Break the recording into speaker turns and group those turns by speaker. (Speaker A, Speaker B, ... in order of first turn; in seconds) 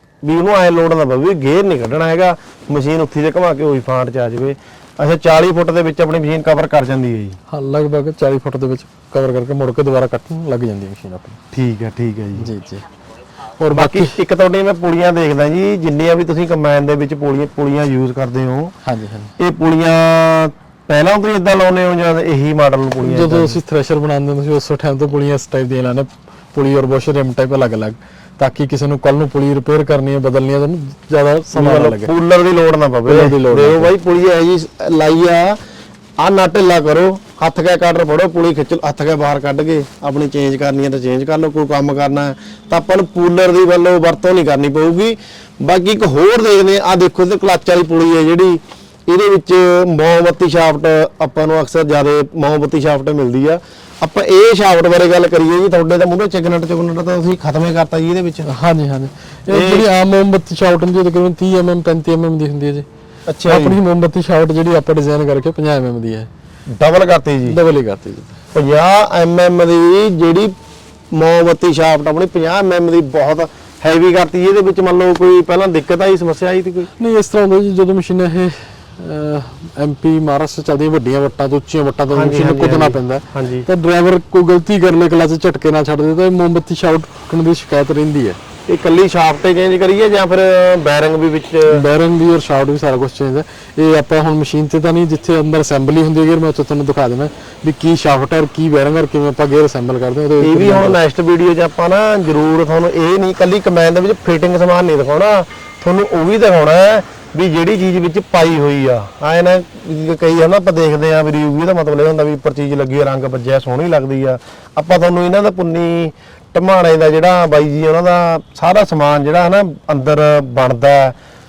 Speaker A: 0.2-7.4, 11.5-12.5, 13.7-18.7, 19.4-23.6, 31.6-35.6, 36.2-58.5, 59.5-59.9, 63.3-63.8, 66.7-67.6, 68.5-70.5, 71.1-76.9, 82.1-83.7, 88.7-91.8, 100.4-121.2
Speaker B: 7.5-11.4, 12.4-12.9, 13.6-14.2, 18.8-19.4, 23.0-32.1, 33.1-33.9, 58.5-62.9, 63.5-66.3, 67.5-68.4, 77.0-88.4, 91.7-101.0